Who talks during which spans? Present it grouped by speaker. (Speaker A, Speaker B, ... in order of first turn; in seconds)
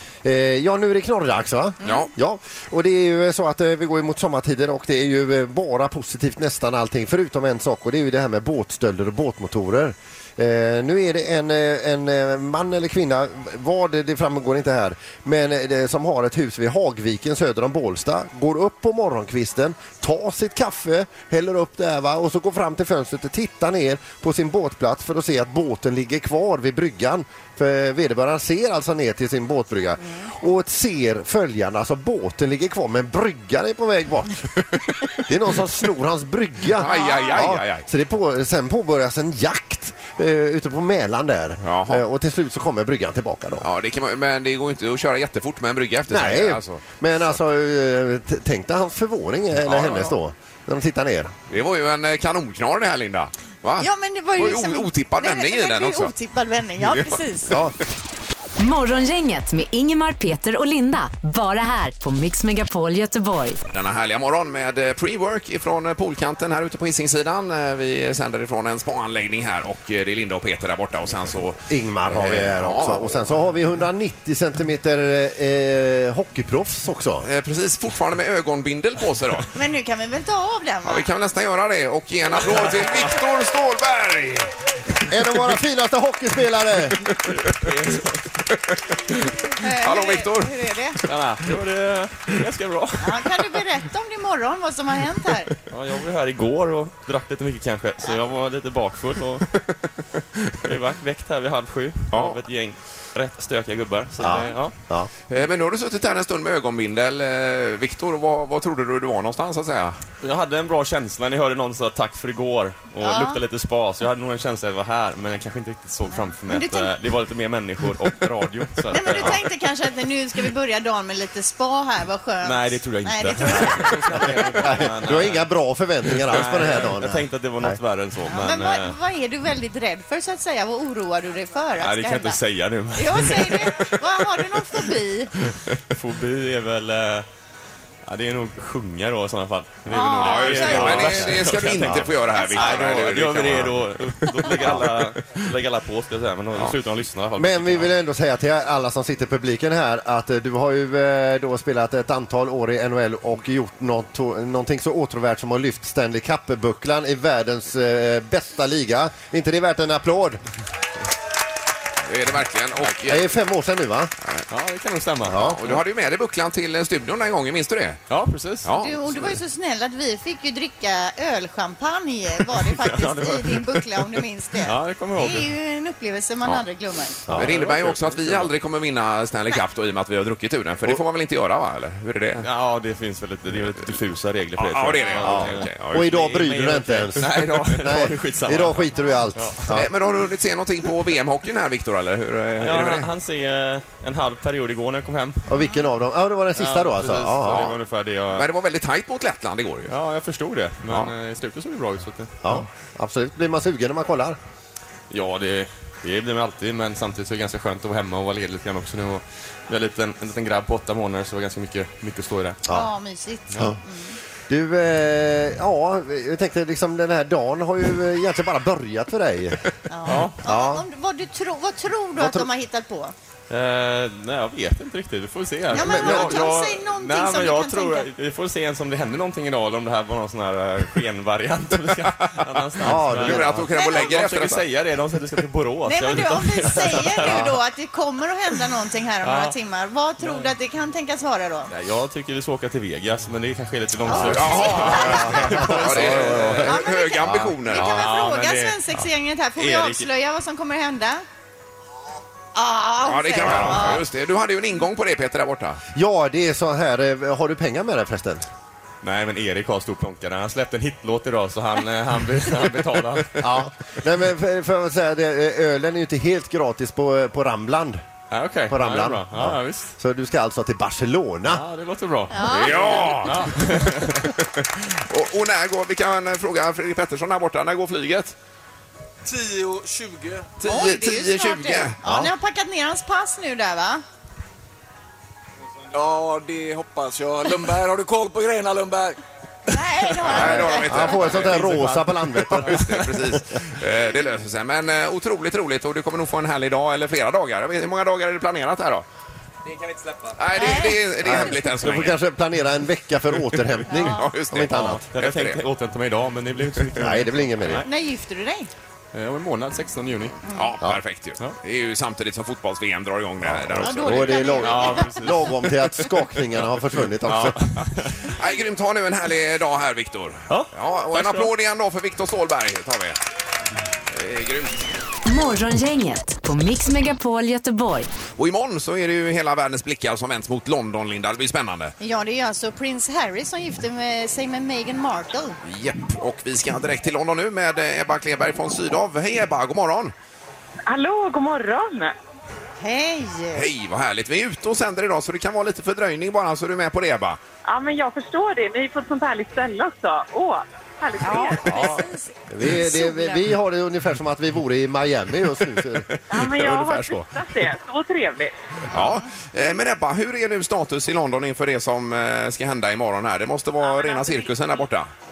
Speaker A: 0.2-34.5, 35.1-43.7, 46.1-51.3, 71.7-77.3, 85.1-87.0, 104.2-105.1, 124.2-127.8, 141.8-142.1, 147.4-160.4, 163.1-164.1, 165.2-165.6, 185.2-189.9, 195.5-197.7, 202.4-204.4, 214.5-220.8, 222.2-222.5, 225.7-226.5, 232.8-233.7, 244.1-244.4, 245.0-246.7, 247.2-247.6, 255.9-258.4, 263.4-268.0, 268.7-271.6, 282.0-282.3, 290.3-293.0, 301.2-305.0, 307.0-307.8, 313.4-317.6, 352.5-356.1
Speaker B: 36.8-37.8, 41.6-42.0, 43.6-46.8, 49.6-50.0, 51.5-56.1, 56.8-57.2, 63.7-73.3, 77.2-79.5, 80.8-84.5, 89.8-90.5, 102.1-102.4, 105.3-110.0, 140.2-143.8, 144.3-144.8, 162.1-163.3, 165.3-168.0, 168.6-169.0, 177.3-182.4, 184.6-186.1, 189.7-193.1, 197.5-197.8, 198.3-199.9, 200.9-201.1, 233.2-234.6, 244.1-248.1, 253.0-255.8, 272.5-273.4, 274.4-278.3, 280.6-282.0, 290.2-291.6, 292.6-299.0, 300.4-302.2, 303.9-305.6, 310.5-314.4, 318.3-323.2, 324.1-324.8, 328.4-331.9, 335.6-340.1, 343.5-347.4, 356.3-357.3, 358.9-365.1
Speaker C: 36.8-37.4, 53.8-57.6, 79.5-81.1, 89.4-91.0, 93.0-95.5, 113.0-113.4, 116.4-116.9, 118.9-124.9, 128.2-132.4, 132.9-135.3, 139.9-141.3, 142.4-142.8, 168.7-177.3, 212.7-214.2, 219.9-223.1, 225.7-228.1, 233.7-234.1, 235.8-241.7, 244.1-251.2, 252.5-254.0, 272.3-273.3, 280.6-284.0, 289.7-291.1, 300.5-301.0, 303.9-304.2, 307.8-308.7, 313.8-315.2, 332.0-335.6, 342.8-343.7, 351.2-353.5, 358.9-359.2
Speaker D: 58.6-63.6, 325.2-328.1
Speaker E: 87.4-88.2, 91.1-93.5, 95.7-99.5, 100.6-104.7, 110.2-119.5, 122.4-125.5, 126.1-128.9, 131.8-134.9, 135.4-137.2, 138.1-147.9, 164.5-165.8, 168.1-168.7, 172.6-175.5, 177.3-178.5, 182.4-189.8, 192.6-195.5, 196.6-198.5, 199.9-202.6, 205.1-212.6, 220.1-220.4, 223.5-237.5, 239.2-239.6, 240.2-240.5, 241.7-246.7, 247.7-250.1, 253.5-253.8, 259.0-263.5, 268.3-269.9, 271.5-274.3, 291.1-293.0, 304.7-307.9, 309.1-310.4, 314.6-316.0, 317.2-318.2, 320.5-321.5
Speaker F: 279.2-280.5, 285.9-289.2, 299.9-300.3
Speaker G: 340.9-342.1, 347.6-352.0, 356.3-358.5, 363.8-364.5